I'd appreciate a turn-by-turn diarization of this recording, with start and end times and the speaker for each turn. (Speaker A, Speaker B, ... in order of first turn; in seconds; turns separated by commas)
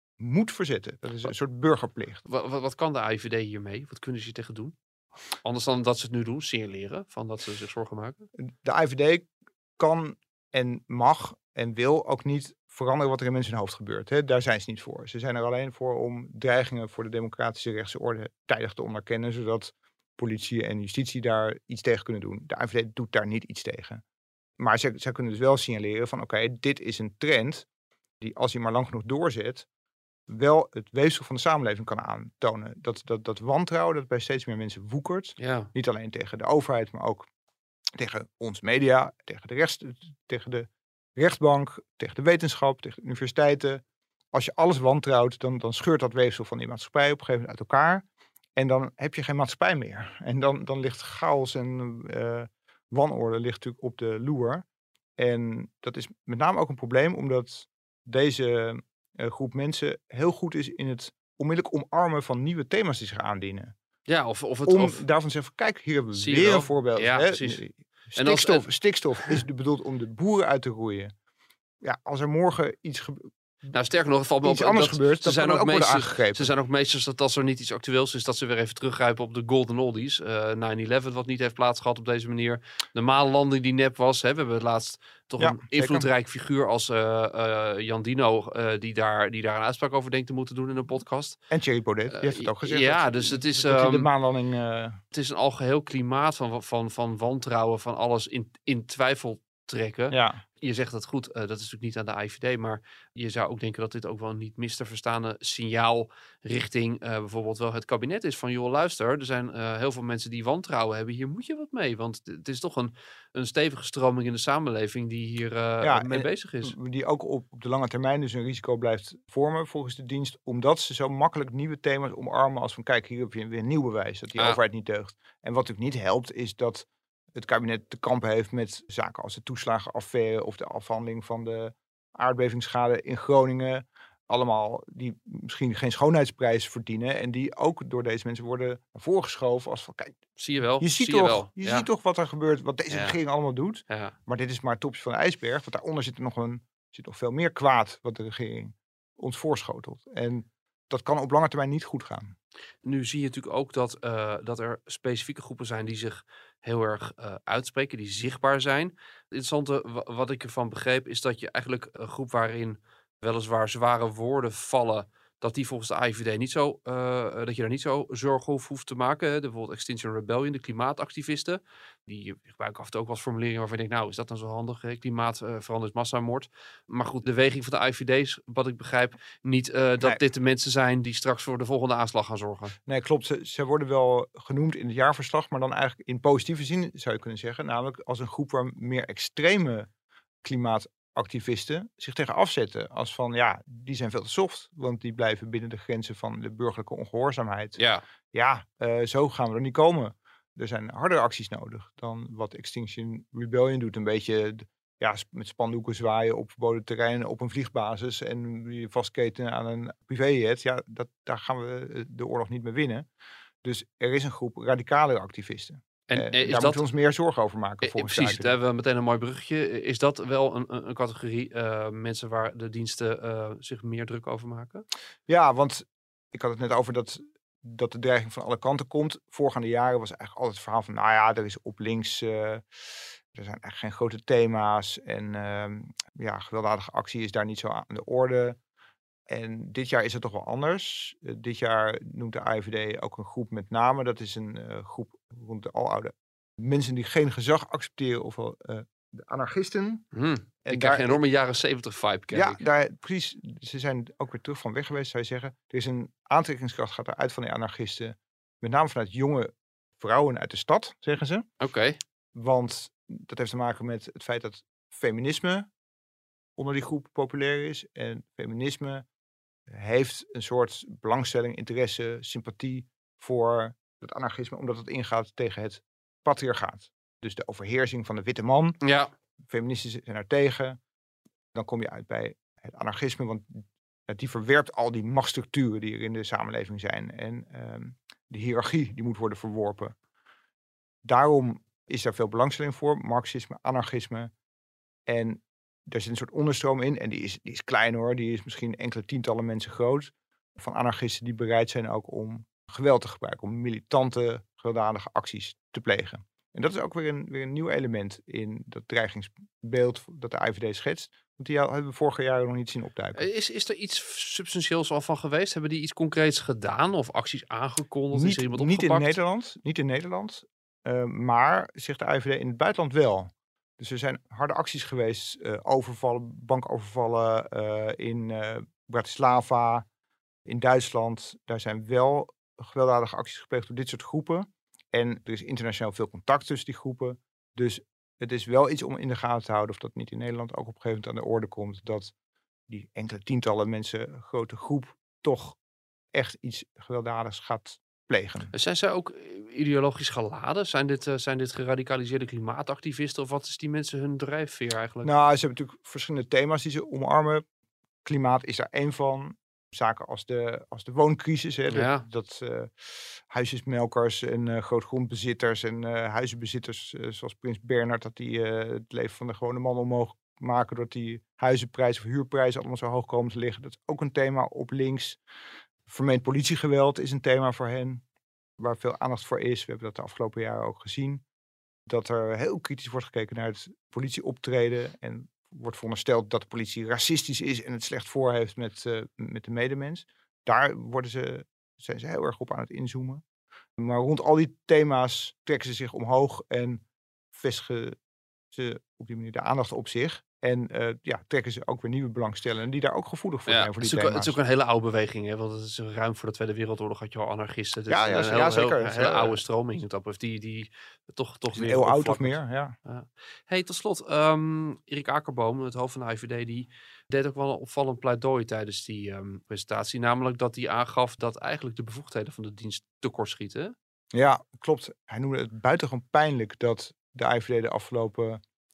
Speaker A: 0.2-2.2, Speaker B: 2.3-4.8, Speaker B: 5.4-8.3, Speaker A: 8.4-24.0, Speaker A: 24.6-27.7, Speaker A: 28.2-29.7, Speaker A: 30.3-37.3, Speaker B: 35.4-35.7, Speaker A: 38.0-48.0, Speaker A: 48.6-54.6, Speaker A: 55.2-63.7, Speaker B: 64.1-65.0, Speaker A: 64.7-71.1, Speaker B: 66.2-67.6, Speaker B: 68.2-68.7, Speaker A: 71.8-73.3, Speaker B: 73.7-91.4, Speaker A: 74.4-76.5, Speaker A: 85.4-86.1, Speaker A: 91.5-95.0, Speaker B: 92.1-94.1, Speaker B: 95.1-116.8, Speaker A: 100.1-100.4, Speaker A: 115.8-140.2, Speaker B: 140.4-141.9, Speaker A: 140.8-152.3, Speaker B: 142.9-143.2, Speaker B: 143.9-144.2, Speaker B: 152.8-182.8, Speaker A: 182.9-189.9, Speaker A: 190.4-197.8, Speaker B: 197.8-198.0, Speaker A: 198.3-213.1, Speaker A: 213.6-218.5, Speaker B: 216.1-216.8, Speaker B: 217.8-224.8, Speaker A: 225.3-238.6, Speaker A: 239.3-250.1, Speaker B: 250.1-252.6, Speaker A: 250.7-251.2, Speaker A: 252.3-261.5, Speaker B: 261.6-262.0, Speaker A: 262.4-265.7, Speaker A: 266.6-269.1, Speaker A: 269.7-278.8, Speaker B: 278.8-279.1, Speaker A: 279.5-280.8, Speaker A: 281.5-290.0, Speaker A: 291.1-294.3, Speaker A: 295.1-313.3, Speaker B: 313.2-319.2, Speaker A: 318.1-329.9, Speaker A: 330.5-342.1, Speaker A: 342.7-345.6, Speaker A: 346.1-348.5, Speaker B: 348.5-355.1, Speaker A: 355.0-357.4, Speaker A: 358.1-375.2, Speaker B: 361.7-362.1, Speaker A: 375.9-378.0, Speaker A: 378.6-381.2, Speaker A: 381.9-393.2, Speaker A: 393.8-398.0, Speaker A: 398.5-404.4, Speaker B: 403.5-423.7, Speaker A: 407.9-409.4, Speaker A: 411.5-412.8, Speaker A: 424.1-428.4